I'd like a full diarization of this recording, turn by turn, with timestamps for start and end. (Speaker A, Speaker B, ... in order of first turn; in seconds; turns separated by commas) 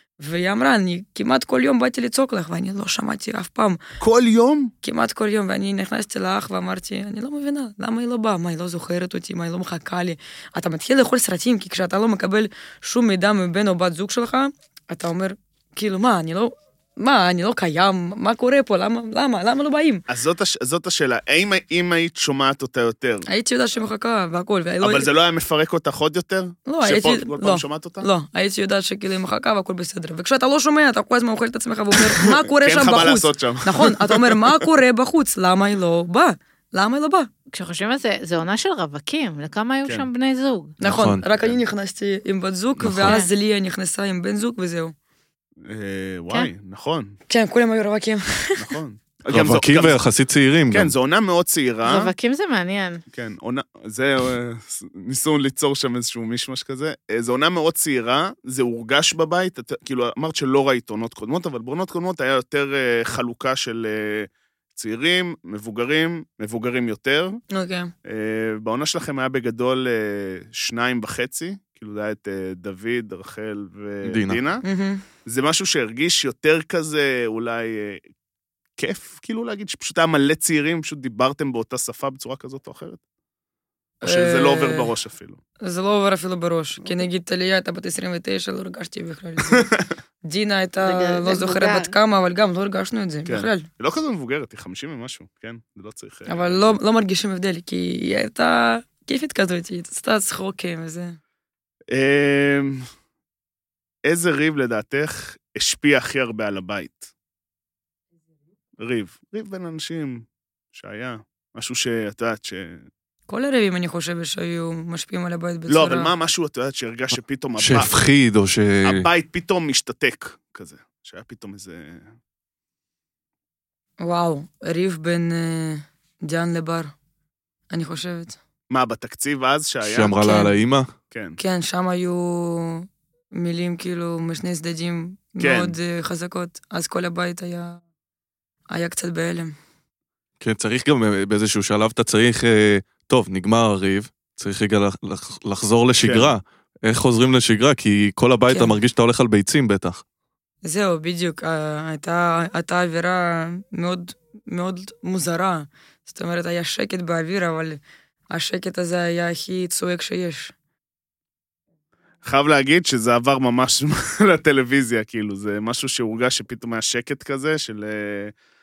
Speaker A: 0.2-3.8, Speaker B: 4.0-4.7, Speaker A: 4.8-20.0, Speaker B: 20.1-23.3, Speaker A: 23.3-25.1, Speaker B: 24.8-28.1, Speaker A: 26.7-37.3, Speaker B: 32.0-34.4, Speaker C: 37.5-40.8, Speaker A: 40.8-45.0, Speaker D: 40.8-41.2, Speaker D: 42.8-43.2, Speaker B: 45.7-47.2, Speaker A: 47.3-48.7, Speaker B: 48.5-50.0, Speaker D: 49.3-50.9, Speaker B: 50.7-52.1, Speaker C: 51.9-53.0, Speaker B: 53.1-67.4, Speaker A: 67.5-67.9, Speaker B: 68.0-74.6, Speaker D: 74.0-74.4, Speaker A: 74.6-75.0, Speaker B: 75.2-78.0, Speaker B: 78.8-83.0, Speaker A: 84.0-84.9, Speaker B: 84.0-85.4, Speaker A: 85.6-89.7, Speaker B: 89.5-89.9, Speaker A: 90.2-93.7, Speaker C: 90.8-91.9, Speaker B: 93.3-96.8, Speaker A: 96.3-101.2, Speaker B: 101.9-102.9, Speaker B: 104.0-107.1, Speaker B: 108.8-112.9, Speaker A: 113.3-116.1, Speaker B: 115.7-117.9, Speaker D: 117.6-119.1, Speaker B: 118.8-122.1, Speaker A: 124.0-126.9, Speaker A: 127.7-128.4, Speaker B: 128.7-130.2, Speaker D: 129.8-130.9, Speaker A: 130.2-130.6, Speaker B: 131.1-131.4, Speaker A: 131.4-137.8, Speaker B: 135.4-135.8, Speaker A: 138.7-139.5, Speaker D: 140.4-150.0, Speaker B: 146.0-146.3, Speaker A: 148.5-148.8, Speaker A: 150.6-157.8, Speaker A: 158.3-160.5, Speaker B: 162.2-168.3